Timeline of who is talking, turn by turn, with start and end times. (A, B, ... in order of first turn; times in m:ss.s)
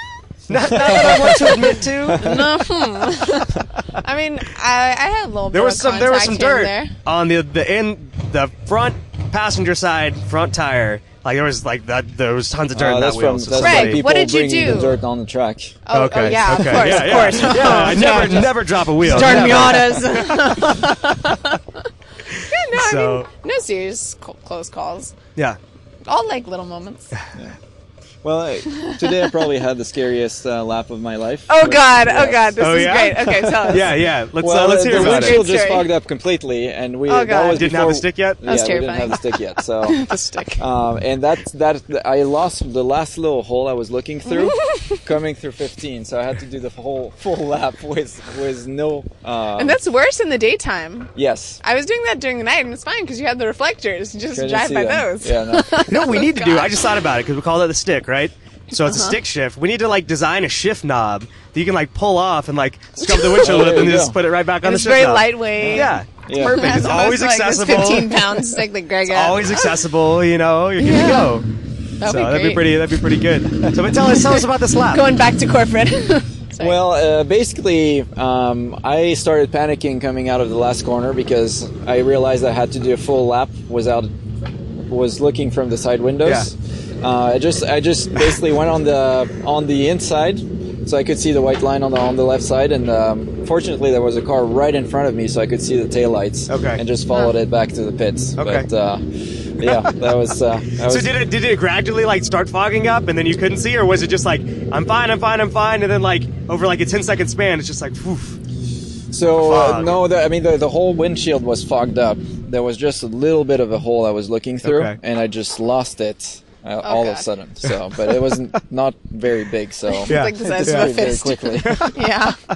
0:00.5-0:02.4 A
0:00.6-0:01.5 B
0:00.9-0:07.0 C
0:02.0-0:02.6 B
0:05.5-0:14.0 A
0:12.7-0:15.8 B
0:13.6-0:15.0 C
0:15.9-0:21.6 C
0:15.9-0:20.9 A
0:16.5-0:20.0 B
0:22.5-0:25.2 C
0:22.7-0:23.3 A
0:26.1-0:27.1 C
0:28.2-0:32.7 B
0:28.7-0:29.4 C
0:31.5-0:34.1 C
0:32.6-0:35.4 A
0:33.7-0:49.8 B
0:34.8-0:35.9 C
0:37.1-0:37.8 C
0:37.5-0:38.8 A
0:38.4-0:40.6 C
0:44.3-0:45.0 C
0:49.6-0:57.1 C
0:51.2-0:51.6 B
0:54.3-0:56.2 B
0:55.9-1:08.4 A
0:58.8-0:59.2 C
1:03.0-1:03.6 C
1:03.4-1:04.2 B
1:04.6-1:09.9 C
1:05.7-1:06.9 B
1:09.1-1:11.5 A
1:10.8-1:11.4 C
1:12.0-1:12.9 C
1:12.0-1:15.1 A
1:13.9-1:16.8 C
1:16.6-1:24.1 B
1:24.9-1:41.2 B
1:36.5-1:36.8 A
1:38.4-1:38.7 A
1:39.7-1:40.1 A
1:40.9-1:48.4 A
1:49.1-2:02.0 B
1:49.3-1:50.0 A
1:54.6-1:55.0 A
1:56.8-1:57.3 C
1:59.9-2:02.4 C
2:00.1-2:00.9 A
2:01.6-2:02.0 A